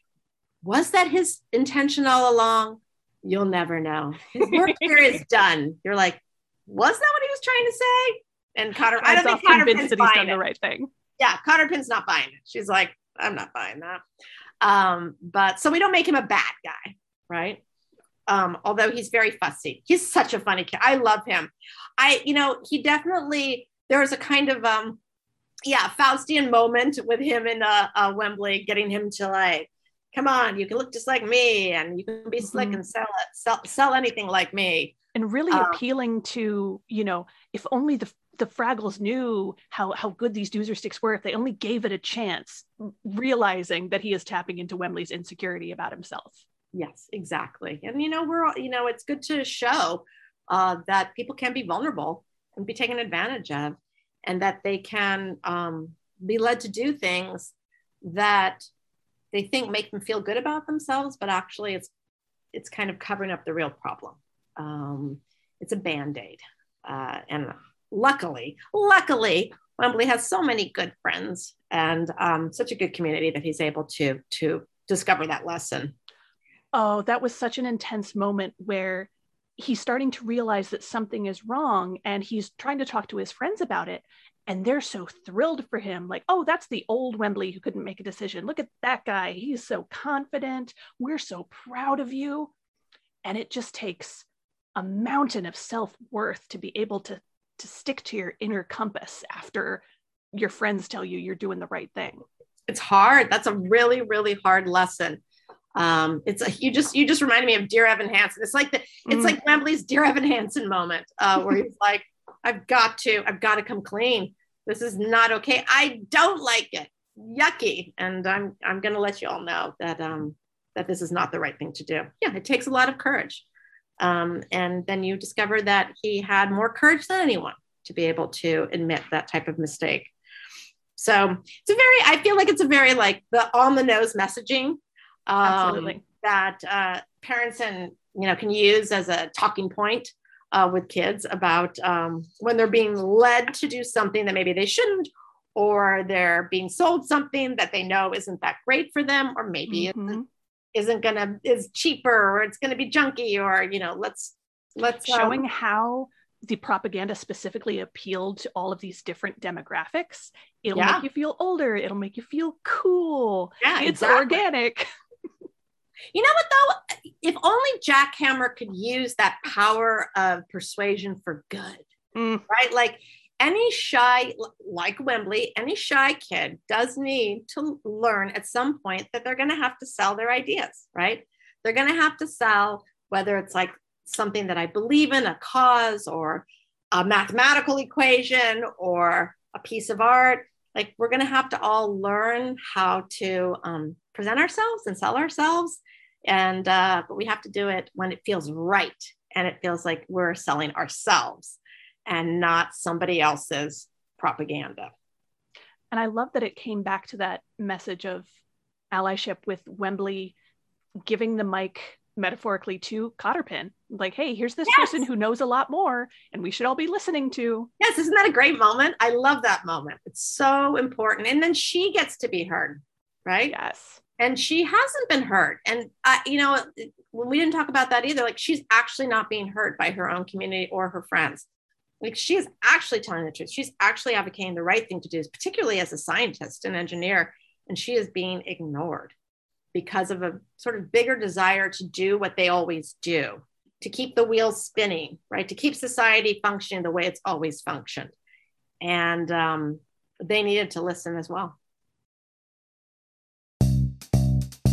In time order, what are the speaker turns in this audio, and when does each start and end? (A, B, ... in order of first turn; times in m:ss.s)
0:00.6-0:10.4 A
0:08.9-0:10.9 B
0:11.2-0:14.0 A
0:14.6-0:17.6 A
0:18.3-0:25.0 A
0:25.6-0:35.0 A
0:32.4-0:32.8 B
0:35.1-0:46.4 B
0:35.5-0:35.8 A
0:46.7-0:58.7 A
0:59.3-1:01.9 A
1:02.5-1:15.9 A
1:16.7-1:32.5 B
1:33.2-1:39.8 B
1:40.3-1:42.2 B
1:42.7-1:45.2 A
1:45.8-2:03.4 A
1:49.1-1:49.4 B
2:04.0-2:10.1 A
2:11.0-2:30.2 A
2:15.4-2:16.0 B
2:29.7-2:30.2 B
2:30.7-2:35.4 A
2:35.0-2:44.9 B
2:40.7-2:41.0 A
2:43.6-2:44.4 A
2:46.1-2:51.9 A
2:52.1-2:52.4 B
2:52.5-3:24.9 A
3:25.9-3:28.3 B
3:28.9-3:30.4 B
3:31.0-3:37.7 B
3:34.6-3:35.0 A
3:37.8-3:43.5 A
3:43.4-3:44.0 B
3:44.2-3:51.4 A
3:52.0-3:59.1 A
3:59.7-4:08.1 A
4:08.8-4:11.6 A